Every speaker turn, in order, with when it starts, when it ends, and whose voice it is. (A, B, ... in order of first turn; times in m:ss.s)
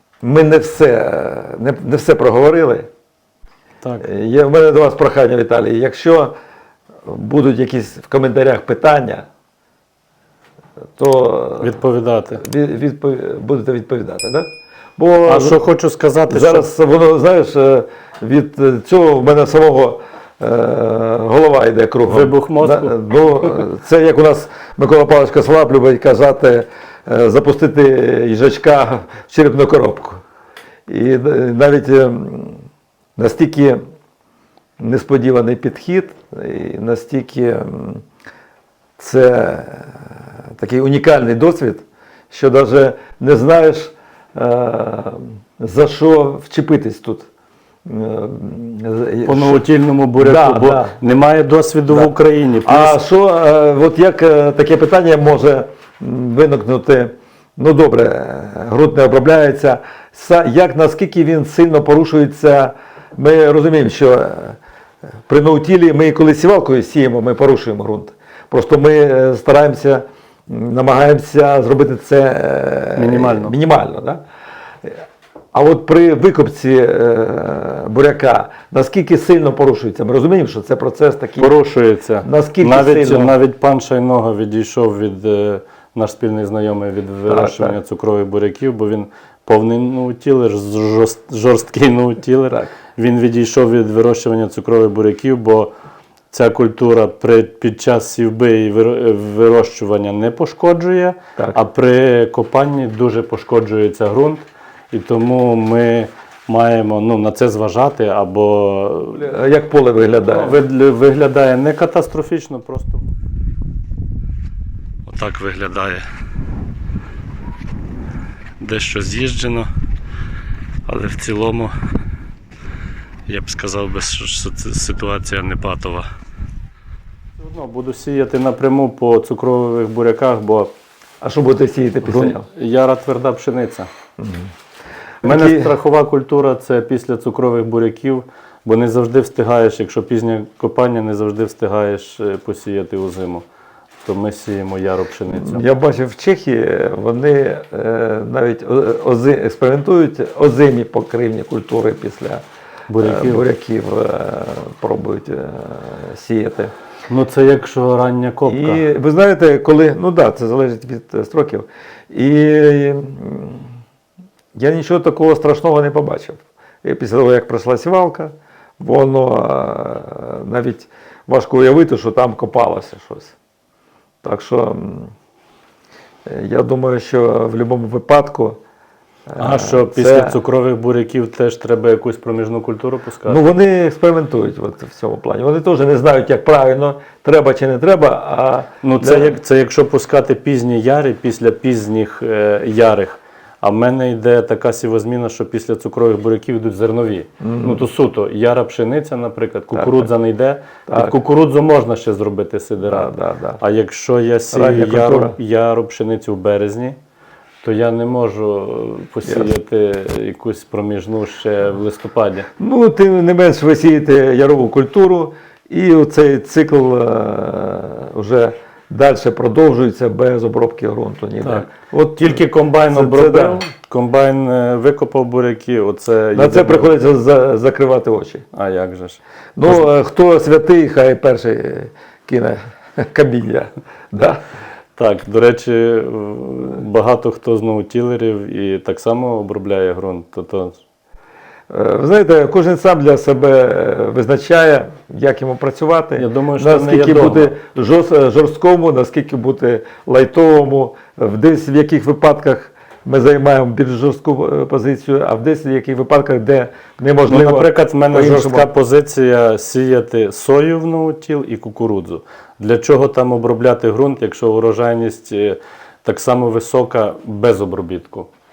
0:00.2-0:02.9 A
0:03.8-0:04.1 B
0:04.0-0:06.3 A
0:07.0-0:09.3 A
0:11.0-0:11.8 A
0:11.6-0:12.4 B
0:12.4-0:15.6 A
0:15.3-0:16.7 B
0:16.3-0:30.2 A
0:22.1-0:23.6 B
0:30.9-0:32.6 A
0:33.2-0:33.8 A
0:34.8-0:38.0 A
0:39.0-0:47.3 A
0:47.8-0:49.6 A
0:49.2-0:53.0 B
0:50.2-0:51.0 A
0:52.6-1:04.6 A
1:05.3-1:14.2 A
1:13.0-1:13.6 B
1:15.5-1:21.5 A
1:21.4-1:35.7 B
1:22.2-1:23.4 A
1:27.3-1:27.8 A
1:36.3-1:49.3 B
1:49.1-1:50.6 A
1:50.2-1:53.1 B
1:55.1-1:56.1 B
1:58.6-1:59.7 B
2:00.9-2:01.8 B
2:03.3-2:06.1 B
2:07.4-2:10.7 B
2:11.2-2:12.4 A
2:12.0-2:13.9 B
2:14.2-2:14.5 A
2:15.2-2:15.8 A
2:15.2-2:23.4 B
2:24.0-2:25.7 B
2:25.3-2:32.4 A
2:32.9-2:33.5 B
2:33.0-2:36.7 A
2:37.1-2:38.9 B
2:38.5-2:43.7 A
2:44.6-2:53.4 A
2:54.2-2:55.1 A
2:56.3-2:58.6 A
2:59.3-3:00.4 A
2:59.4-3:03.4 B
3:03.3-3:09.4 A
3:08.8-3:27.0 B
3:17.4-3:17.8 A
3:19.8-3:20.1 A
3:20.9-3:21.2 A
3:22.9-3:23.6 A
3:24.5-3:25.4 A
3:27.6-3:32.5 B
3:32.6-3:43.6 A
3:41.4-3:47.0 B
3:46.3-3:48.4 A
3:48.5-3:49.9 B
3:49.6-3:54.4 A
3:55.0-4:00.8 B
4:01.7-4:18.7 A
4:06.2-4:07.6 B
4:17.3-4:28.3 B